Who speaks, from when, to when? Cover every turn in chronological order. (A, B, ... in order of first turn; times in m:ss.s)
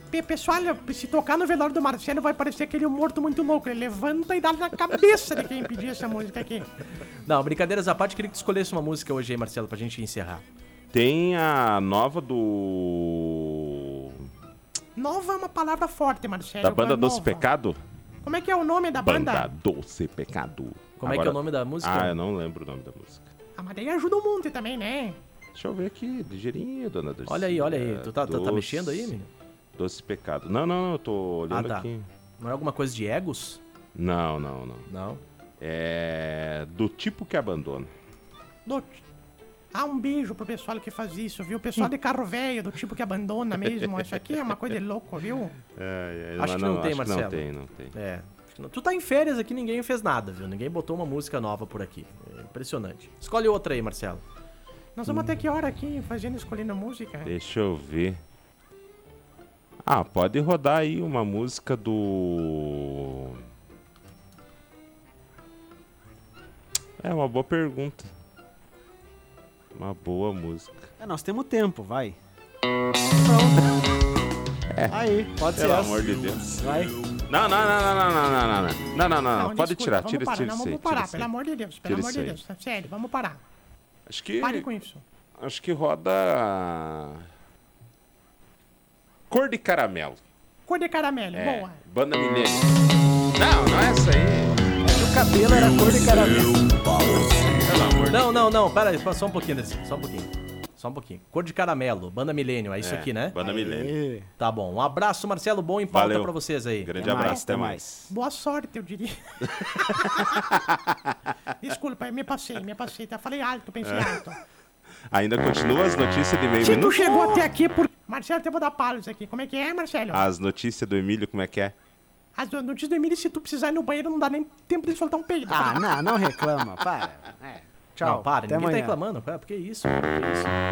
0:00.1-0:06.7 A
0:07.3-0:10.4 B
0:10.9-0:14.3 C
0:15.0-0:17.5 A
0:16.6-0:17.8 C
0:18.2-0:19.5 A
0:19.1-0:23.3 C
0:21.0-0:22.2 B
0:23.6-0:25.2 A
0:25.6-0:29.1 C
0:27.3-0:29.3 B
0:29.8-0:32.1 C
0:31.5-0:31.9 B
0:32.4-0:33.6 B
0:34.0-0:34.9 C
0:34.9-0:35.2 B
0:35.6-0:37.9 C
0:38.7-0:39.0 A
0:39.7-0:45.5 A
0:45.8-0:47.9 C
0:46.4-0:54.2 B
0:55.0-0:57.3 A
0:57.2-0:58.2 C
0:59.9-1:03.4 C
1:07.0-1:08.1 C
1:09.8-1:10.9 C
1:11.0-1:12.2 D
1:13.3-1:13.5 D
1:14.9-1:16.9 D
1:15.6-1:16.6 C
1:17.3-1:21.3 C
1:19.3-1:23.4 A
1:21.8-1:22.4 C
1:24.1-1:24.7 C
1:24.4-1:25.0 A
1:25.4-1:27.2 C
1:29.3-1:30.2 C
1:30.7-1:31.8 A
1:31.3-1:32.7 C
1:33.4-1:34.6 C
1:34.8-1:36.9 D
1:37.2-1:38.5 C
1:38.1-1:43.4 B
1:42.8-1:44.0 C
1:43.4-1:44.3 D
1:44.4-1:46.9 B
1:45.9-1:48.0 C
1:47.0-1:48.1 D
1:48.1-1:50.4 A
1:49.6-1:51.2 C
1:51.6-1:54.4 A
1:53.8-1:54.2 C
1:55.1-1:57.5 C
1:56.6-2:00.3 A
2:00.1-2:01.7 C
2:02.4-2:05.9 A
2:05.5-2:09.0 D
2:08.0-2:10.5 B